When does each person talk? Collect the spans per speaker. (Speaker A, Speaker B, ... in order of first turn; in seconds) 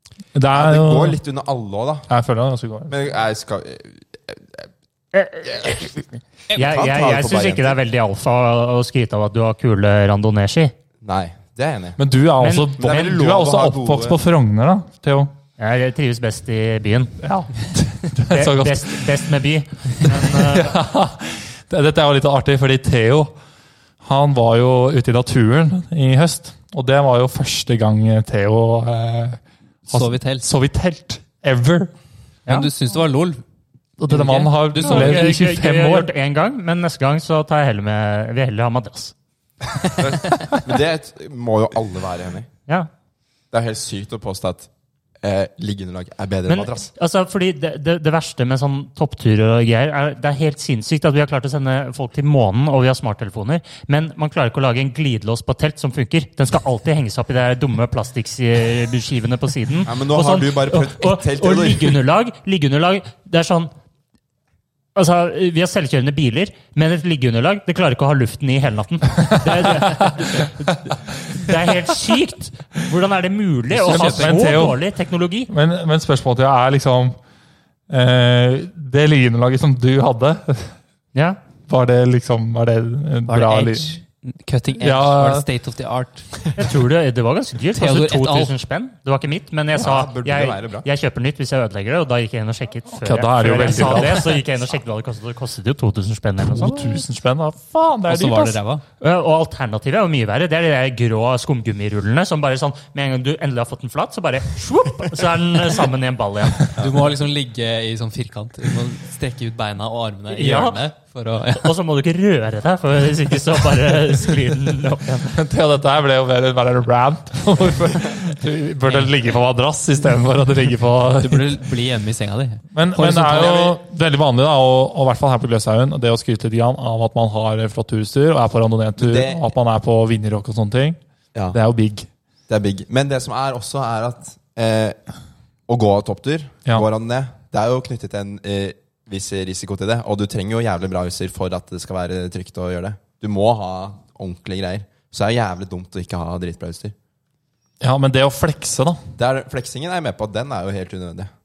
Speaker A: 0.3-1.2, 2.1-2.9, 12.0-15.3, 17.2-19.1, 20.1-23.3, 24.0-31.9, 34.0-36.1, 69.4-70.5, 73.8-74.8, 75.5-77.2, 77.9-80.8, 81.7-84.0, 84.8-85.5, 93.0-94.4, 96.4-98.6, 115.3-121.6, 122.7-131.0, 131.5-132.1, 147.8-149.0
Speaker B: 0.5-2.1, 2.9-4.7, 5.5-5.8, 6.5-7.8, 11.0-12.0, 12.8-14.2, 40.0-42.5, 43.5-44.7, 45.2-46.9, 59.9-62.0, 89.7-90.9, 129.0-129.5, 132.5-135.0, 135.7-146.9, 149.2-151.3
Speaker C: 5.1-10.7, 12.4-13.1, 15.6-17.2, 18.3-20.8, 34.8-39.1, 46.5-63.7, 65.0-75.5, 81.1-81.4, 86.6-97.0, 99.0-106.7, 110.3-110.8, 111.6-115.3
Speaker D: 29.9-30.5, 32.5-33.4, 34.1-35.4, 73.7-74.5, 83.3-86.6, 87.8-88.5, 93.7-94.1, 98.1-98.8, 106.8-111.7, 118.9-119.1, 121.2-123.8